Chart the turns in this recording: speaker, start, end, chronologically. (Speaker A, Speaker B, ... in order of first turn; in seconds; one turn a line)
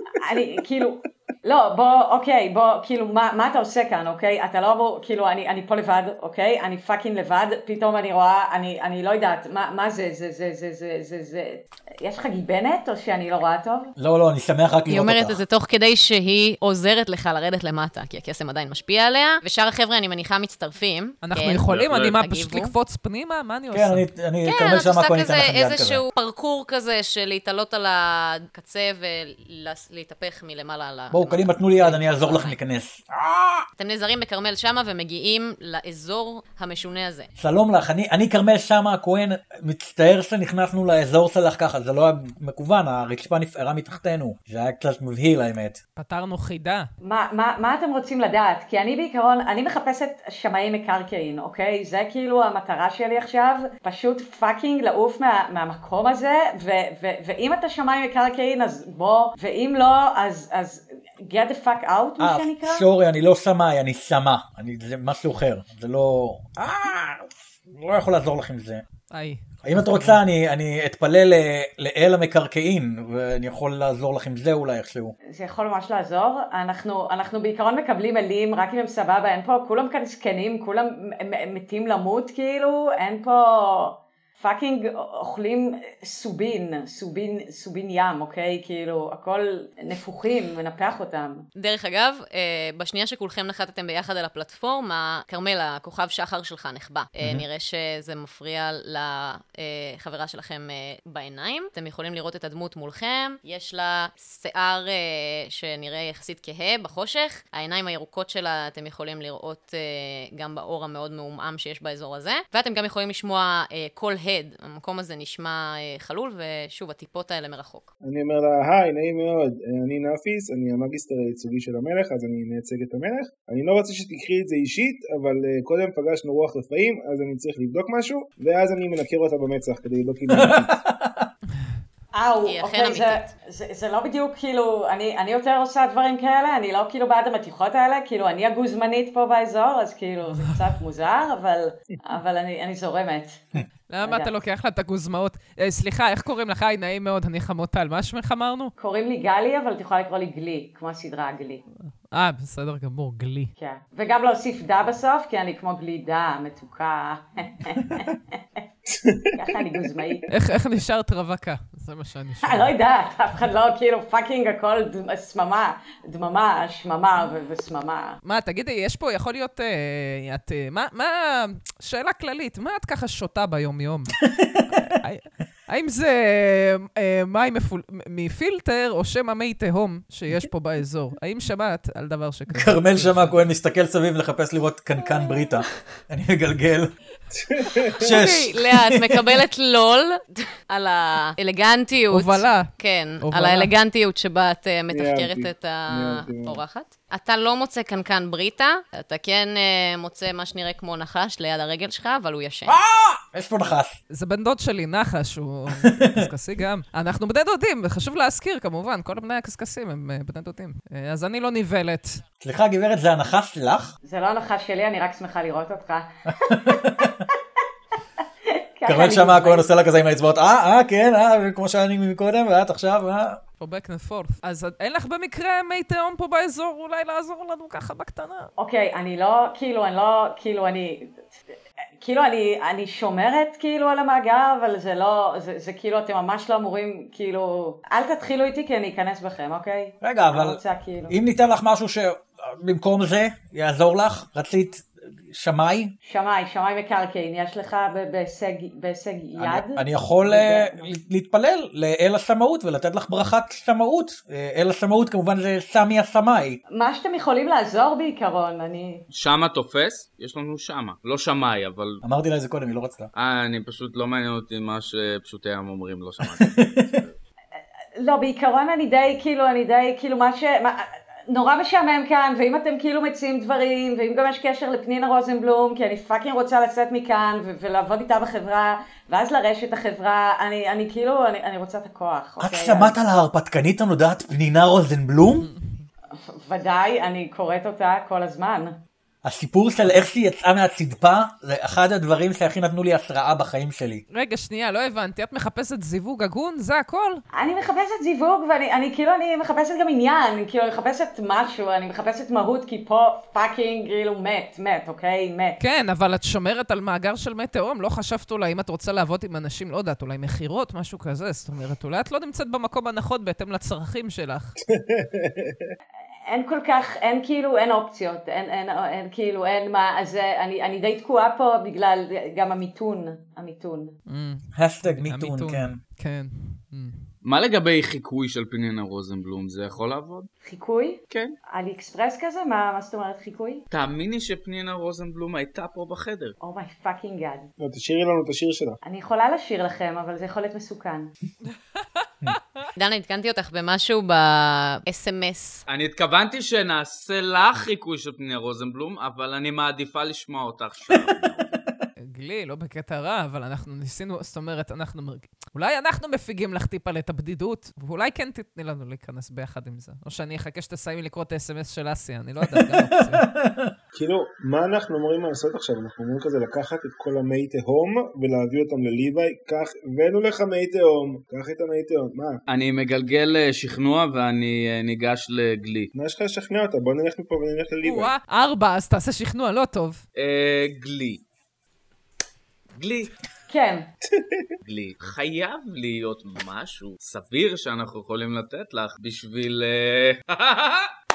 Speaker A: 0.2-13.9
Speaker B: 14.0-15.4
Speaker C: 14.9-22.7
Speaker D: 21.2-24.1
Speaker E: 21.7-22.1
Speaker B: 23.7-26.0
Speaker C: 24.4-32.6
Speaker B: 31.1-33.7
Speaker C: 33.8-37.3
Speaker B: 37.4-45.8
Speaker D: 46.0-46.9
Speaker A: 47.0-62.9
Speaker B: 62.2-68.8
Speaker D: 69.1-70.2
Speaker B: 69.6-75.1
Speaker A: 75.3-91.5
Speaker C: 91.6-117.9
Speaker F: 118.0-130.8
Speaker B: 130.3-131.3
Speaker A: 132.1-144.3
Speaker C: 132.4-133.3
Speaker D: 143.9-148.7
Speaker A: 148.8-151.6
Speaker D: 152.1-153.5
Speaker A: 153.6-158.2
Speaker F: 158.9-159.4
Speaker A: 159.3-160.3
Speaker D: 160.3-162.7
Speaker A: 162.4-168.2
Speaker D: 168.2-174.2
Speaker B: 174.2-174.9
Speaker D: 174.8-183.4
Speaker B: 182.5-186.9
Speaker F: 187.3-188.1
Speaker B: 187.9-189.4
Speaker C: 188.0-202.8
Speaker D: 192.1-192.7
Speaker D: 193.2-193.7
Speaker F: 194.9-196.6
Speaker B: 202.7-204.0
Speaker D: 204.1-212.2
Speaker B: 205.8-206.3
Speaker B: 212.4-213.9
Speaker A: 214.0-217.0
Speaker B: 216.4-217.2
Speaker A: 218.5-219.7
Speaker B: 218.9-223.4
Speaker D: 223.6-228.5
Speaker A: 228.6-231.2
Speaker A: 232.0-241.2
Speaker B: 240.0-245.9
Speaker A: 246.1-250.9
Speaker B: 249.4-256.6
Speaker A: 256.7-259.0
Speaker E: 259.1-262.0
Speaker B: 262.0-263.1
Speaker E: 263.1-267.1
Speaker B: 266.2-267.0
Speaker A: 268.0-282.9
Speaker B: 282.4-285.5
Speaker D: 285.4-285.7
Speaker A: 286.3-288.8
Speaker B: 289.2-294.0
Speaker D: 294.1-297.2
Speaker A: 297.3-305.6
Speaker D: 305.6-314.6
Speaker F: 314.6-315.7
Speaker A: 316.3-324.0
Speaker D: 324.1-327.1
Speaker B: 324.5-325.8
Speaker E: 327.2-330.3
Speaker A: 330.4-333.6
Speaker E: 331.1-331.4
Speaker E: 333.7-336.4
Speaker A: 336.4-337.5
Speaker F: 337.6-338.8
Speaker A: 338.8-341.1
Speaker C: 342.8-345.6
Speaker E: 345.7-351.6
Speaker D: 352.0-363.2
Speaker B: 362.5-363.7
Speaker F: 363.9-372.4
Speaker E: 372.5-375.9
Speaker F: 375.9-378.1
Speaker D: 377.8-380.0
Speaker E: 380.2-381.2
Speaker E: 382.8-383.1
Speaker A: 383.5-383.9
Speaker F: 384.1-384.4
Speaker E: 384.6-390.9